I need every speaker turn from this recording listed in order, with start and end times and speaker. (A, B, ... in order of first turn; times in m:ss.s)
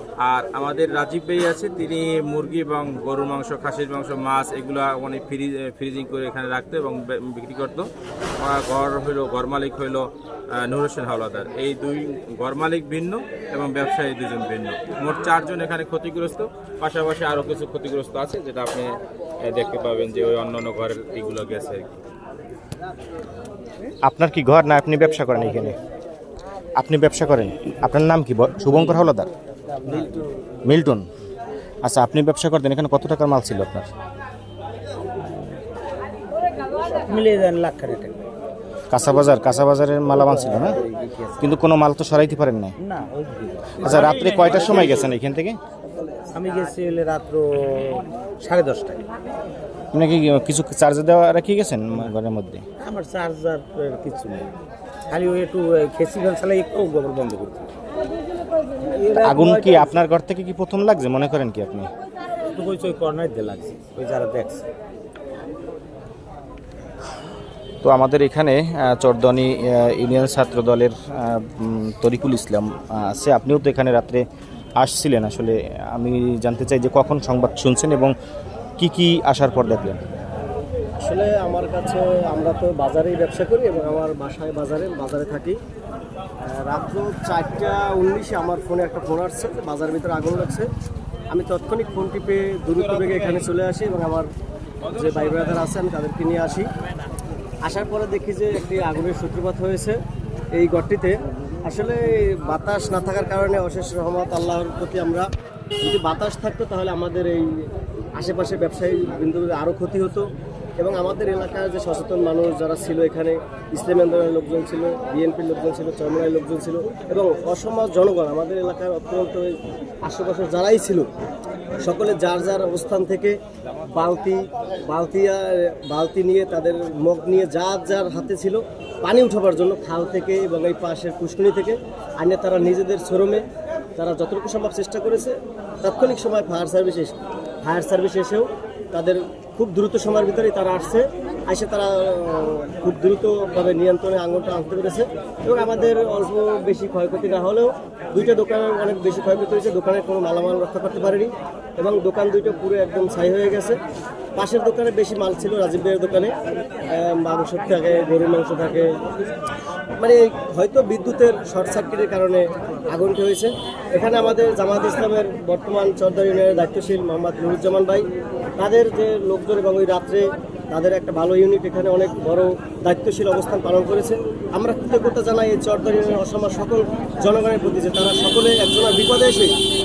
0:00.2-0:22.0 A
0:24.0-0:25.8 B
0:26.8-0:29.3 B
0:29.8-0:30.2 C
0:30.6-0:31.0 B
0:31.8-0:33.9 B
0:37.1-0:38.2 C
0:38.9-0:40.8 B
0:40.2-0:41.6 C
0:41.4-0:42.7 B
0:42.8-0:45.1 C
0:43.8-0:45.6 B
0:46.3-0:49.0 C
0:49.9-0:52.6 B
0:52.8-0:54.5 C
0:55.1-0:57.7 C
0:58.8-0:59.9 C
0:59.2-1:01.9 B
1:02.5-1:04.7 C
1:07.8-1:14.2 B
1:14.8-1:18.1 B
1:18.8-1:20.0 B
1:21.0-1:25.6 D
1:26.4-1:30.7 D
1:31.3-1:34.3 D
1:34.9-1:36.7 D
1:37.6-1:40.0 D
1:40.5-1:45.2 D
1:45.8-1:50.2 D
1:50.8-1:59.5 D
2:00.0-2:01.1 D
2:01.8-2:03.3 D
2:03.9-2:13.4 D
2:14.0-2:33.8 D
2:34.4-2:36.3 D
2:36.9-2:38.9 D
2:40.0-2:48.0 D
2:48.6-2:59.5 D